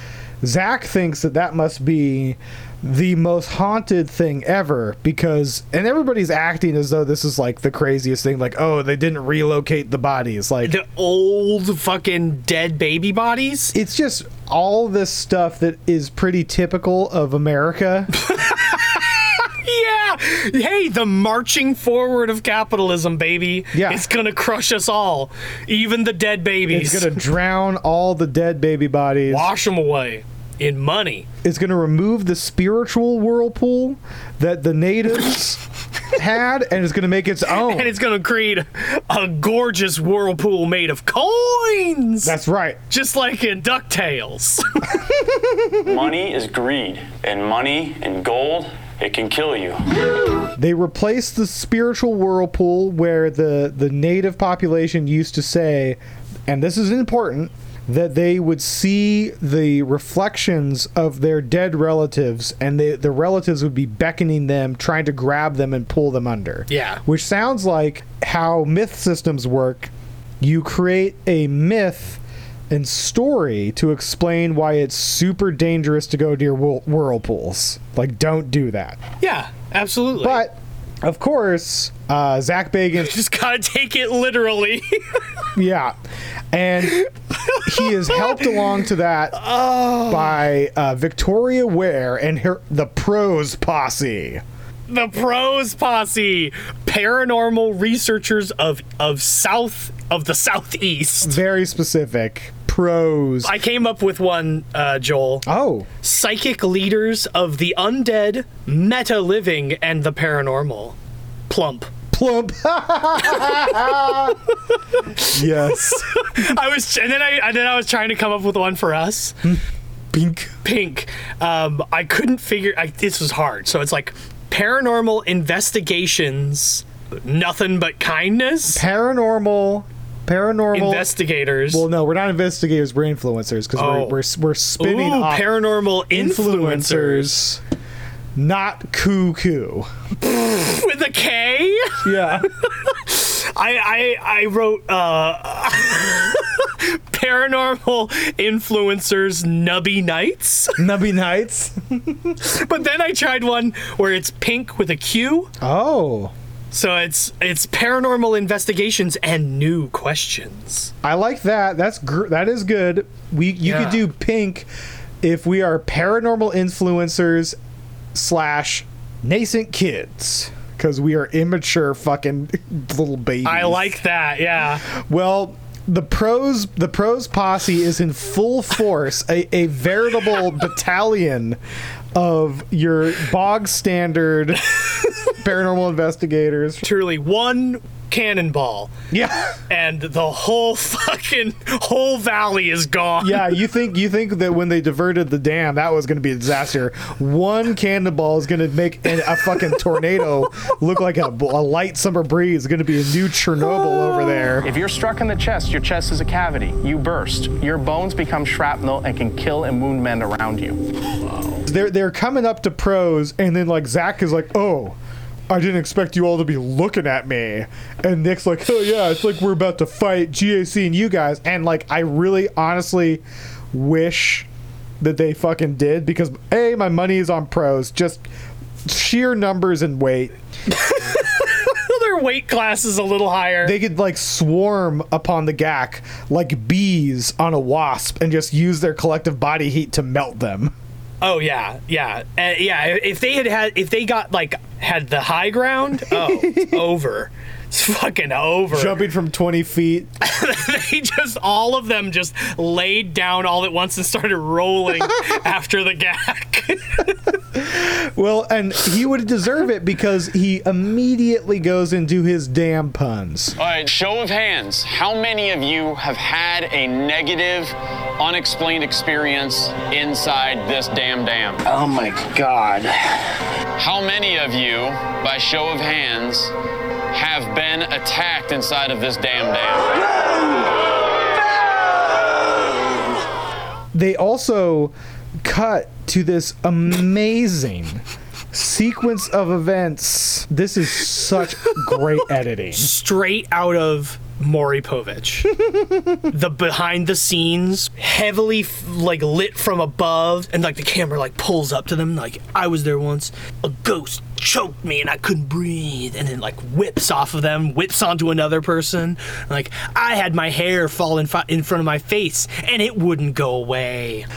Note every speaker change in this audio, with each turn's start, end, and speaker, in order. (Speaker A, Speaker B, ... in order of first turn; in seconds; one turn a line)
Speaker A: 0.4-10.8
Speaker B: 10.6-13.8
Speaker A: 13.7-18.1
Speaker B: 18.2-27.2
Speaker A: 23.7-24.1
Speaker A: 26.7-29.5
Speaker B: 29.3-31.3
Speaker A: 31.4-35.6
Speaker A: 36.1-37.9
Speaker B: 37.5-42.3
Speaker A: 42.2-42.8
Speaker B: 42.9-44.9
Speaker A: 45.3-45.7
Speaker C: 45.8-49.8
Speaker A: 50.6-79.0
Speaker B: 66.7-67.0
Speaker B: 79.2-80.5
Speaker A: 80.2-83.2
Speaker B: 83.0-84.9
Speaker A: 85.6-86.0
Speaker A: 86.5-87.0
Speaker B: 86.9-88.8
Speaker A: 87.6-89.4
Speaker B: 89.3-90.4
Speaker A: 90.1-94.4
Speaker B: 94.9-101.3
Speaker A: 101.2-103.5
Speaker B: 103.4-105.5
Speaker A: 105.5-105.9
Speaker B: 106.0-111.0
Speaker B: 111.5-111.9
Speaker A: 112.1-114.4
Speaker B: 113.3-114.2
Speaker B: 114.7-119.4
Speaker A: 115.3-116.3
Speaker A: 120.1-120.5
Speaker B: 120.6-128.8
Speaker A: 128.7-131.1
Speaker B: 130.7-131.8
Speaker A: 131.7-137.6
Speaker B: 133.8-134.2
Speaker B: 134.8-137.4
Speaker A: 138.3-139.9
Speaker B: 140.3-142.1
Speaker A: 142.0-142.5
Speaker B: 142.8-150.8
Speaker A: 150.8-152.3
Speaker B: 152.4-155.5
Speaker A: 155.6-156.3
Speaker B: 156.7-160.9
Speaker A: 161.0-164.7
Speaker B: 163.7-164.0
Speaker A: 165.2-167.6
Speaker A: 168.1-174.0
Speaker B: 173.4-174.8
Speaker A: 174.9-181.6
Speaker A: 182.2-184.7
Speaker A: 185.3-186.8
Speaker B: 186.8-188.9
Speaker A: 189.1-189.6
Speaker B: 189.7-193.5
Speaker A: 193.2-204.7
Speaker D: 204.6-210.8
Speaker A: 211.7-215.0
Speaker A: 215.5-224.5
Speaker A: 225.0-228.2
Speaker A: 228.8-230.4
Speaker B: 230.7-233.8
Speaker A: 233.6-240.8
Speaker B: 241.2-249.0
Speaker A: 246.1-246.8
Speaker A: 248.7-250.1
Speaker B: 250.2-257.3
Speaker A: 257.6-263.6
Speaker C: 263.6-271.6
Speaker C: 273.8-276.5
Speaker C: 277.1-280.0
Speaker A: 283.9-292.9
Speaker B: 292.7-295.5
Speaker A: 295.7-296.2
Speaker B: 296.3-314.3